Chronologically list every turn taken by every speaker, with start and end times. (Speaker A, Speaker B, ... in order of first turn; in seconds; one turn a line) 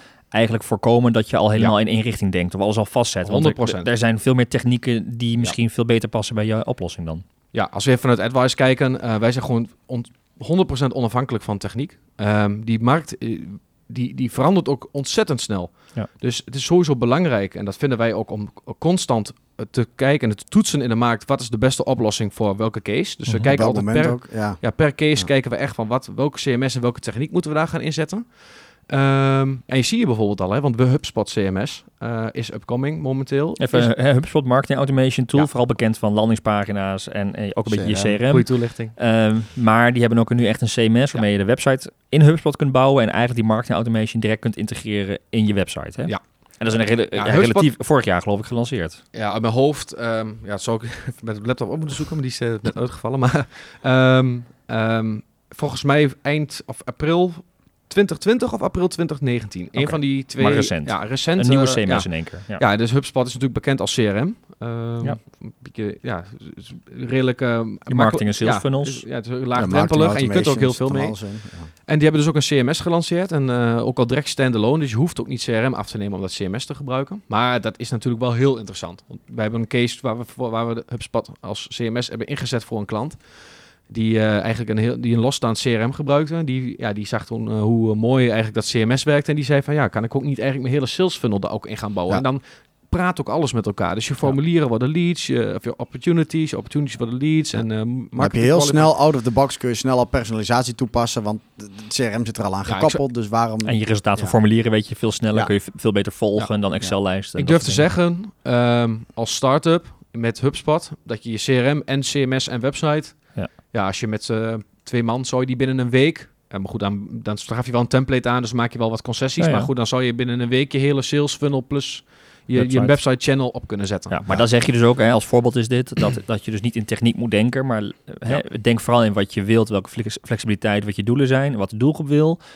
Speaker A: 0.3-7.2
Speaker B: 3.2-3.9
Speaker B: 7.5-33.9
Speaker C: 23.5-24.6
Speaker A: 33.6-49.0
Speaker C: 37.7-38.2
Speaker B: 38.3-38.9
Speaker B: 46.7-47.7
Speaker B: 49.1-98.9
Speaker A: 59.8-62.6
Speaker A: 67.9-69.0
Speaker C: 69.5-71.7
Speaker C: 98.2-104.3
Speaker B: 102.7-103.0
Speaker A: 103.6-107.8
Speaker B: 107.3-124.2
Speaker A: 119.4-119.7
Speaker A: 122.5-123.0
Speaker A: 124.1-132.4